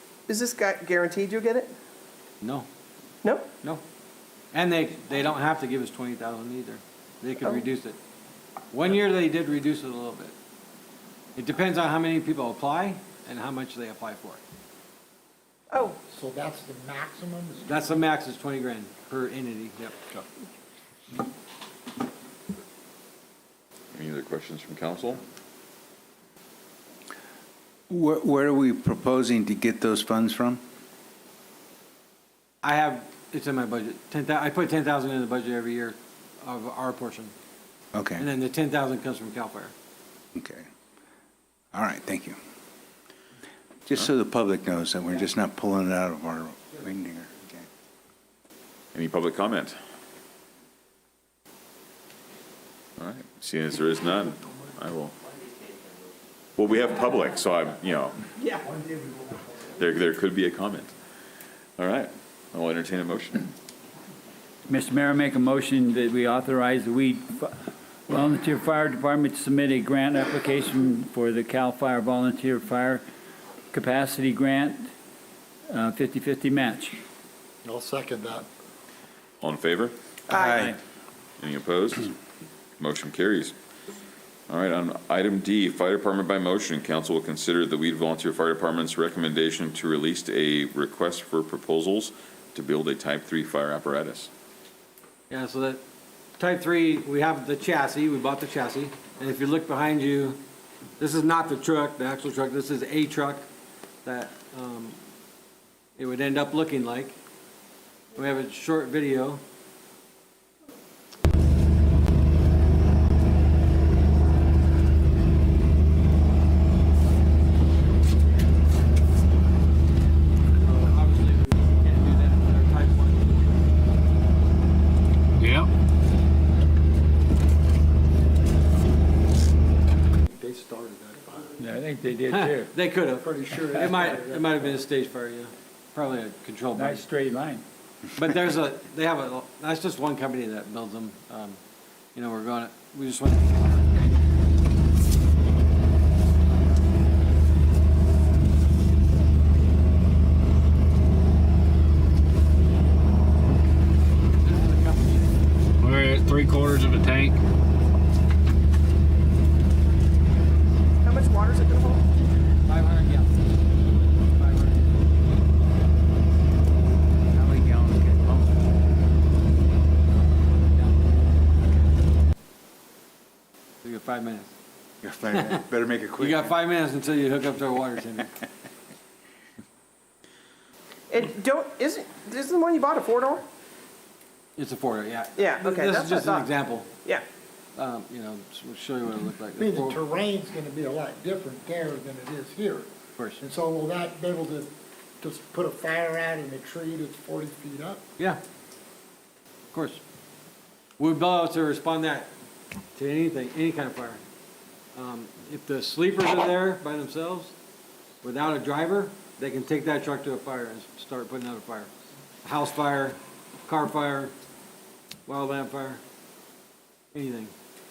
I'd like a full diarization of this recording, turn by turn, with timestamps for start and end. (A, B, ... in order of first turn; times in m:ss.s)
0:00.3-0:01.7 A
0:02.4-0:02.7 B
0:03.2-0:03.5 A
0:04.5-0:08.0 B
0:08.7-0:10.3 B
0:11.4-0:14.4 B
0:15.7-0:16.0 A
0:16.0-0:17.8 C
0:17.6-0:20.0 B
0:23.9-0:25.2 D
0:27.9-0:30.6 E
0:32.6-0:37.3 B
0:37.9-0:38.2 E
0:38.2-0:39.7 B
0:40.3-0:40.7 E
0:41.7-0:42.4 E
0:43.9-0:47.7 E
0:48.9-0:49.8 D
0:53.0-0:55.1 D
0:56.6-0:58.1 D
0:58.4-0:58.6 A
0:59.8-1:00.9 D
1:01.8-1:03.5 D
1:04.7-1:07.5 F
1:08.1-1:13.0 F
1:13.7-1:14.9 F
1:15.7-1:17.0 F
1:17.6-1:18.5 C
1:19.4-1:19.9 D
1:20.3-1:20.6 A
1:20.3-1:20.7 E
1:20.5-1:20.7 F
1:21.4-1:22.1 D
1:22.8-1:23.5 D
1:24.5-1:34.3 D
1:35.3-1:35.8 B
1:36.4-1:40.4 B
1:41.0-1:43.4 B
1:44.0-1:45.0 B
1:46.0-1:47.2 B
1:48.1-1:49.4 B
2:00.6-2:03.7 B
2:05.4-2:05.7 G
2:10.1-2:11.5 C
2:11.6-2:12.7 F
2:12.3-2:17.0 B
2:13.2-2:14.8 C
2:16.7-2:17.6 F
2:18.2-2:21.6 B
2:22.1-2:24.0 B
2:34.4-2:35.4 B
2:35.8-2:37.4 G
2:41.0-2:42.1 A
2:42.6-2:43.4 B
2:44.3-2:45.1 B
2:47.3-2:48.8 E
2:50.7-2:51.0 B
2:53.8-2:54.5 B
2:55.0-2:56.5 E
2:56.2-2:58.3 B
3:01.1-3:03.4 A
3:04.6-3:06.9 B
3:05.4-3:06.5 A
3:07.8-3:10.0 B
3:09.6-3:12.9 C
3:13.2-3:13.4 B
3:13.4-3:18.0 C
3:19.7-3:20.0 B
3:21.0-3:22.3 B
3:22.9-3:24.2 B
3:24.9-3:27.5 B
3:28.2-3:31.9 B
3:32.4-3:34.3 B
3:35.2-3:36.0 B
3:37.1-3:37.5 B